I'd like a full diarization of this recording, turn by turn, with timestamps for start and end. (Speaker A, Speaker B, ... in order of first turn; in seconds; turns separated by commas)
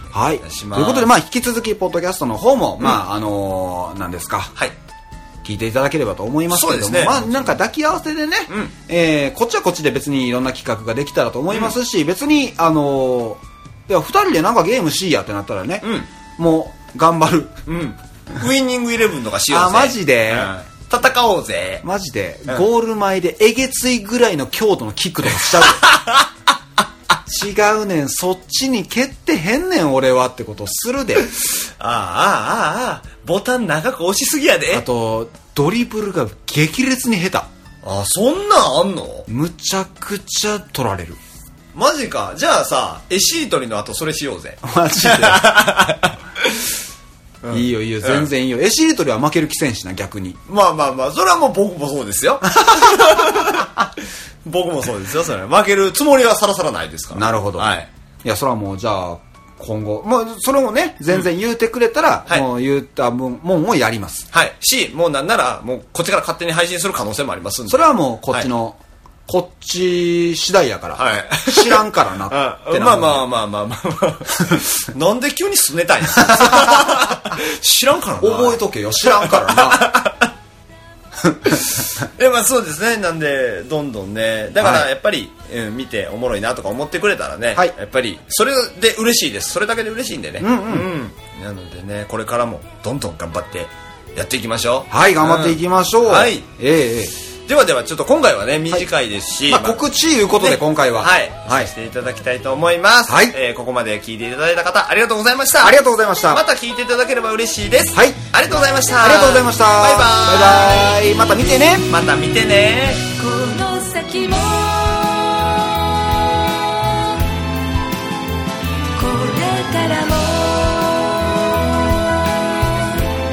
Speaker A: 0.1-4.5, Speaker B: 0.4-1.1, Speaker A: 5.4-15.8, Speaker B: 6.5-7.5, Speaker B: 8.5-8.7, Speaker B: 11.5-11.8, Speaker B: 15.8-16.1, Speaker A: 16.4-17.5, Speaker B: 17.6-21.8, Speaker A: 19.5-20.5, Speaker A: 21.8-25.8, Speaker B: 25.6-26.3, Speaker A: 27.3-31.3, Speaker B: 31.8-34.8, Speaker A: 34.7-37.5, Speaker B: 37.8-39.3, Speaker A: 39.3-41.2, Speaker B: 41.7-46.6, Speaker A: 44.6-45.5, Speaker B: 47.4-48.3, Speaker A: 47.5-50.4, Speaker B: 50.5-53.7, Speaker A: 52.5-53.7, Speaker B: 54.4-57.9, Speaker A: 57.1-57.7, Speaker A: 58.2-64.3, Speaker B: 64.3-68.5, Speaker A: 67.7-73.3, Speaker B: 71.0-80.3, Speaker A: 76.2-77.2, Speaker A: 78.2-80.0, Speaker B: 82.0-96.5, Speaker A: 84.6-84.9, Speaker A: 90.4-90.9, Speaker A: 94.9-97.1, Speaker B: 97.5-99.8, Speaker A: 99.5-101.7, Speaker B: 100.3-111.0, Speaker A: 103.1-103.3, Speaker A: 105.6-106.4, Speaker A: 107.9-108.2, Speaker A: 109.0-111.9, Speaker B: 111.9-113.0, Speaker C: 113.2-115.3, Speaker C: 119.0-121.3